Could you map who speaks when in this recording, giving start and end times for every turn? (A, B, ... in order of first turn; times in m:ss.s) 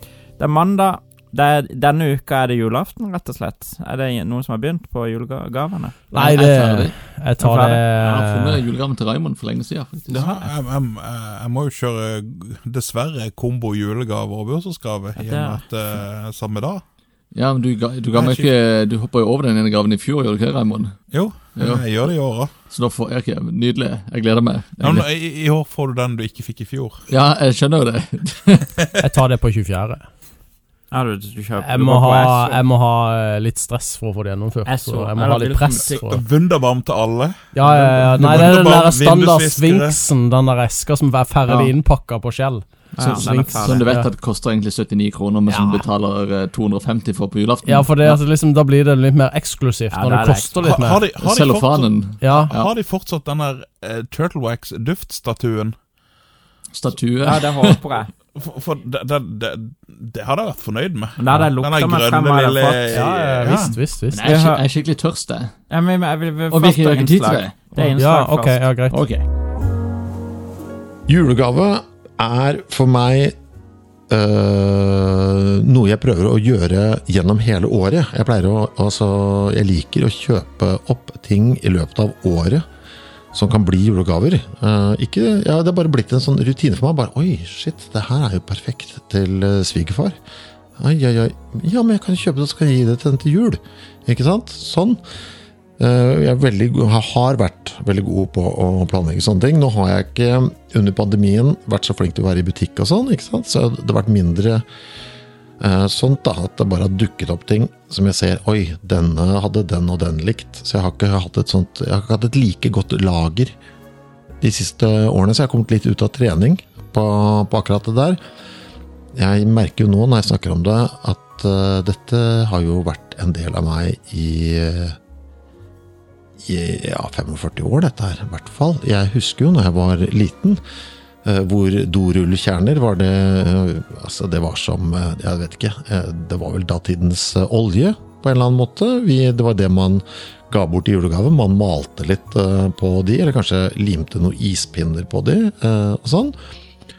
0:00.4-0:06.0 A
0:06.1-0:08.6 B
0:06.1-0:07.0 C
0:07.4-0:07.8 A
0:08.0-0:10.3 C
0:10.1-0:16.8 D
0:15.2-0:15.6 A
0:17.3-0:20.9 C
0:18.1-0:18.5 D
0:21.1-0:22.5 D
0:21.5-0:21.8 C
0:22.7-0:25.0 C
0:24.8-0:27.0 D
0:27.1-0:28.7 C
0:29.0-0:30.0 B
0:30.9-0:32.6 A
0:31.6-0:36.2 B
0:34.6-0:36.0 A
0:35.7-0:40.0 D
0:37.5-0:44.1 B
0:42.9-0:43.8 A
0:43.0-0:48.2 C
0:45.5-0:45.8 B
0:47.6-0:51.0 B
0:49.9-0:50.6 A
0:50.6-0:55.8 D
0:51.2-0:52.7 C
0:52.2-0:52.5 B
0:56.7-0:57.8 C
0:57.2-0:58.1 A
0:58.3-1:03.8 D
1:01.2-1:03.1 A
1:02.9-1:04.3 B
1:04.1-1:05.5 C
1:04.2-1:04.6 A
1:05.7-1:08.7 A
1:06.5-1:07.9 C
1:07.8-1:09.0 B
1:08.9-1:09.2 C
1:11.1-1:13.3 E
1:14.1-1:22.6 E
1:23.3-1:30.2 E
1:30.8-1:35.0 E
1:35.8-1:44.6 E
1:45.6-1:53.5 E
1:54.4-1:58.2 E
1:59.1-2:05.0 E
2:06.4-2:10.6 E
2:11.2-2:26.4 E